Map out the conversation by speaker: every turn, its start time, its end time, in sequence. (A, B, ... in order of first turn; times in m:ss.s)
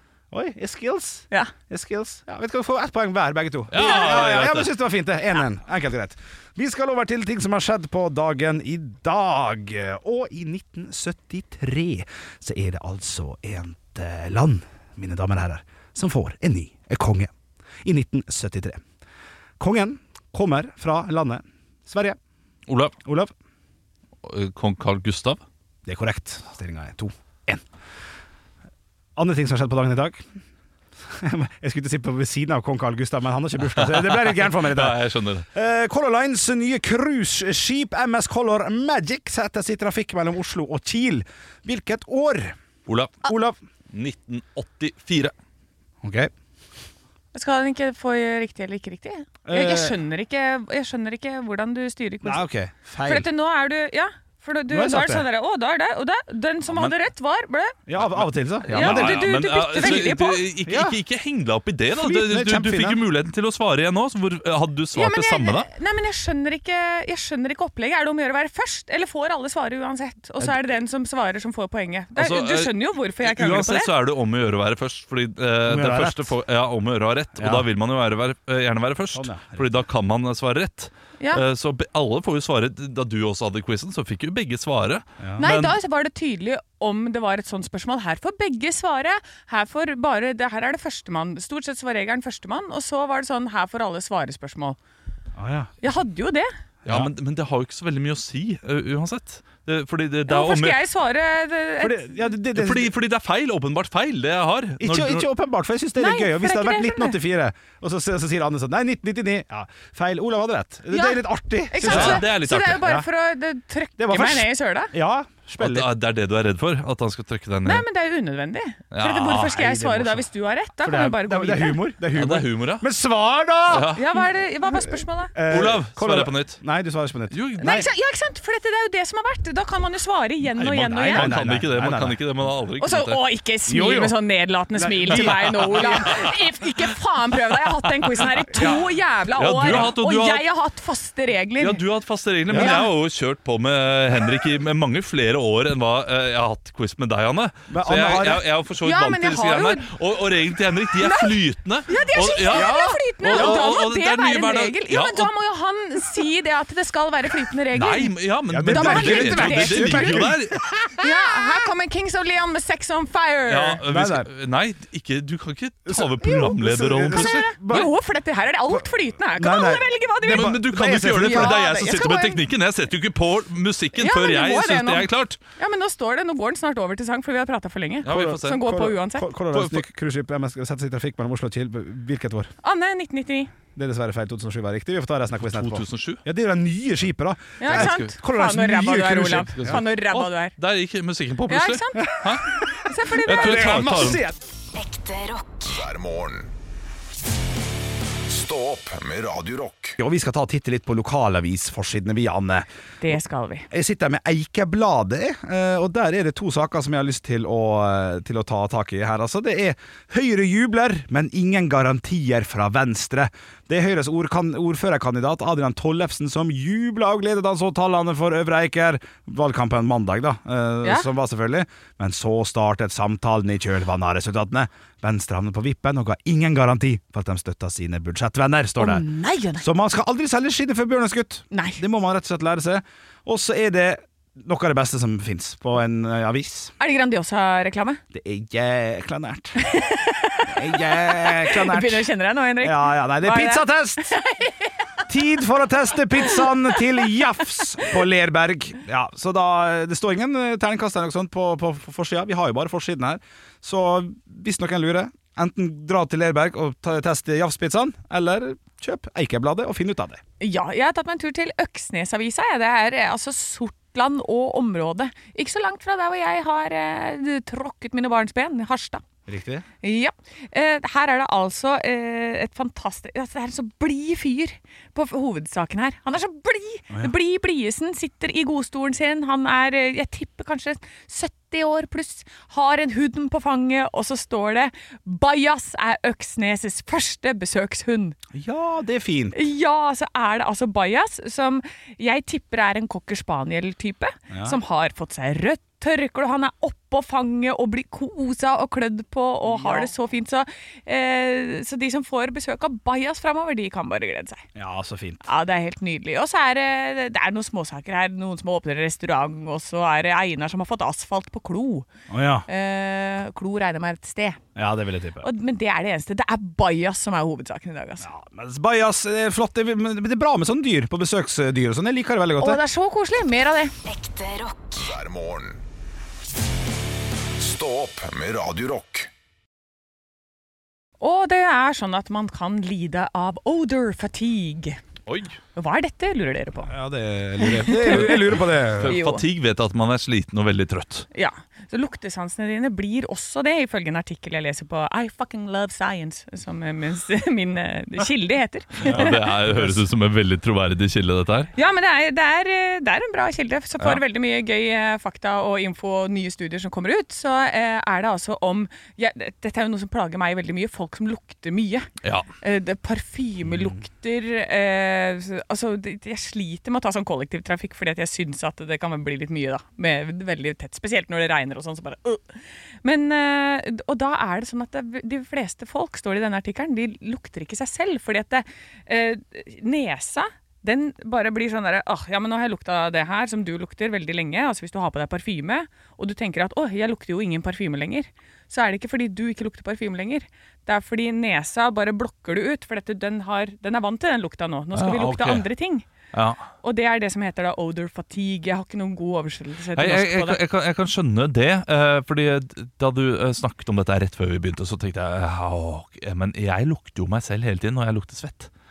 0:00.3-0:17.3 A
0:03.7-0:04.7 B
0:17.8-0:18.8 A
0:19.6-0:22.2 A
0:22.7-0:22.9 B
0:23.0-0:23.3 A
0:24.2-0:25.4 B
0:25.9-0:27.6 A
0:29.2-0:30.2 A
0:31.1-0:42.6 A
0:33.8-0:35.5 B
0:42.9-0:43.2 B
0:43.2-0:43.6 A
0:43.9-0:45.3 B
0:46.0-0:46.3 A
0:47.3-0:52.4 C
0:49.4-0:50.0 A
0:52.2-0:53.3 A
0:53.0-0:57.8 C
0:54.7-0:55.2 A
0:57.9-0:59.3 A
0:58.0-1:05.7 B
0:58.6-1:00.4 C
1:00.6-1:01.0 A
1:02.0-1:03.0 A
1:05.0-1:13.9 C
1:12.2-1:25.8 B
1:15.7-1:16.3 A
1:17.4-1:17.7 A
1:19.1-1:19.7 A
1:25.2-1:25.4 A
1:25.4-1:34.8 C
1:35.4-1:35.7 A
1:35.8-1:36.5 C
1:36.8-1:40.8 B
1:40.3-1:42.2 C
1:41.8-1:42.9 A
1:42.5-1:45.3 B
1:44.8-1:53.1 A
1:46.0-1:47.2 C
1:50.9-1:54.9 C
1:51.8-1:52.9 B
1:54.0-1:55.9 A
1:55.6-1:57.8 B
1:57.6-2:01.8 C
1:58.9-1:59.6 B
1:59.3-2:00.3 A
2:00.8-2:07.9 A
2:02.1-2:02.9 B
2:03.7-2:04.1 B
2:03.9-2:05.4 C
2:05.5-2:06.6 B
2:07.3-2:07.9 B
2:07.6-2:11.3 C
2:10.6-2:13.2 B
2:11.0-2:12.2 A
2:12.8-2:21.8 C
2:13.7-2:14.2 A
2:14.8-2:16.3 A
2:15.1-2:16.3 B
2:18.6-2:18.8 A
2:19.4-2:20.4 B
2:21.6-2:35.3 B
2:22.5-2:22.8 A
2:22.5-2:22.9 C
2:27.7-2:28.4 A
2:28.8-2:29.9 C
2:31.0-2:38.1 C
2:32.5-2:33.8 A
2:37.7-2:40.6 B
2:38.5-2:41.1 A
2:38.7-2:40.3 C
2:41.0-2:43.8 C
2:43.5-2:47.9 B
2:43.9-2:44.3 A
2:45.9-2:47.9 A
2:47.1-2:52.4 C
2:49.3-2:51.6 A
2:50.3-2:55.4 B
2:54.0-2:59.3 C
2:58.0-2:58.7 B
2:58.1-3:02.5 A
2:59.5-2:59.9 B
3:02.6-3:03.5 C
3:03.8-3:09.8 A
3:05.4-3:06.2 B
3:07.6-3:10.6 C
3:07.7-3:08.1 B
3:09.6-3:12.5 B
3:11.5-3:14.1 C
3:13.2-3:14.4 A
3:13.2-3:14.2 B
3:14.7-3:15.6 D
3:15.6-3:16.5 E
3:18.3-3:20.0 E
3:20.0-3:22.7 A
3:23.0-3:23.7 C
3:23.7-3:49.0 A
3:48.8-3:49.6 C
3:49.6-3:56.7 A
3:51.5-3:51.8 C
3:56.8-3:58.0 C
3:58.1-3:59.6 A
3:59.6-4:04.7 C
4:00.5-4:02.1 A
4:02.6-4:04.2 A
4:05.1-4:20.2 A
4:20.4-4:29.0 C
4:29.3-4:29.7 A
4:29.8-4:48.2 C
4:48.3-4:49.4 A
4:49.3-5:04.4 C
4:54.3-4:54.6 A
4:59.5-4:59.9 A
5:04.6-5:05.2 A
5:05.2-5:11.9 C
5:12.1-5:12.5 A
5:12.5-5:14.4 C
5:14.6-5:15.3 A
5:15.2-5:18.1 C
5:18.0-5:22.6 A
5:22.4-5:23.8 C
5:23.8-5:24.8 D
5:24.8-5:25.6 E
5:27.4-5:29.1 E
5:31.0-5:34.8 C
5:35.1-5:35.4 B
5:35.6-5:36.7 C
5:36.7-5:39.0 A
5:37.4-5:39.2 C
5:37.9-5:41.1 B
5:41.1-5:49.4 C
5:48.8-5:51.5 B
5:51.5-6:01.9 C
6:02.4-6:35.9 C
6:03.5-6:03.8 A
6:34.7-6:35.5 B
6:36.1-6:36.5 B
6:36.6-6:40.4 C
6:39.8-6:48.5 B